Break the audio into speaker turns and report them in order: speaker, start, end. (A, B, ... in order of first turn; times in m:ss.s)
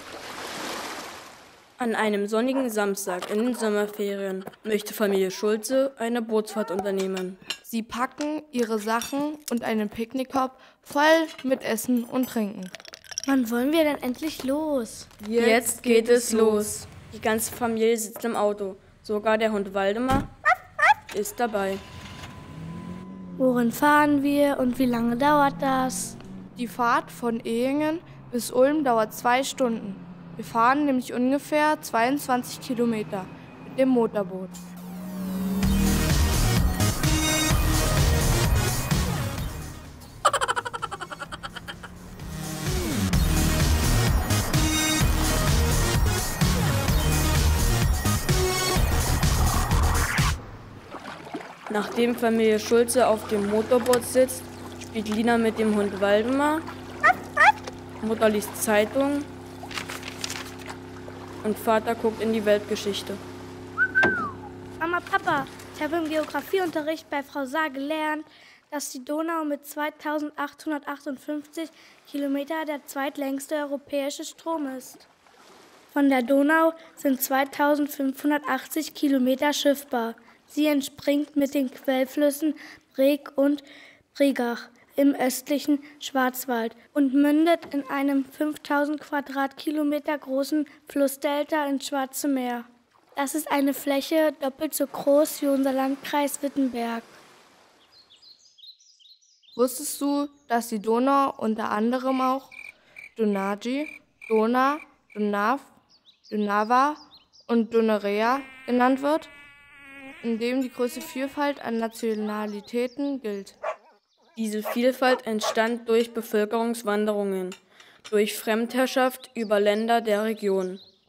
0:01.8-0:07.4 A
0:07.7-0:12.7 B
0:13.3-0:15.1 C
0:15.2-0:20.3 A
0:15.4-0:16.8 B
0:21.1-0:21.8 A
0:23.4-0:26.2 C
0:26.6-0:34.6 B
0:51.7-0:56.7 A
0:58.0-0:59.3 A
1:01.4-1:03.2 A
1:04.8-1:15.1 C
1:15.9-1:37.1 C
1:39.6-1:42.5 B
1:43.2-1:45.7 B
1:46.3-1:49.3 B
1:50.2-1:53.6 B
1:54.4-1:57.6 A
1:58.1-2:00.8 A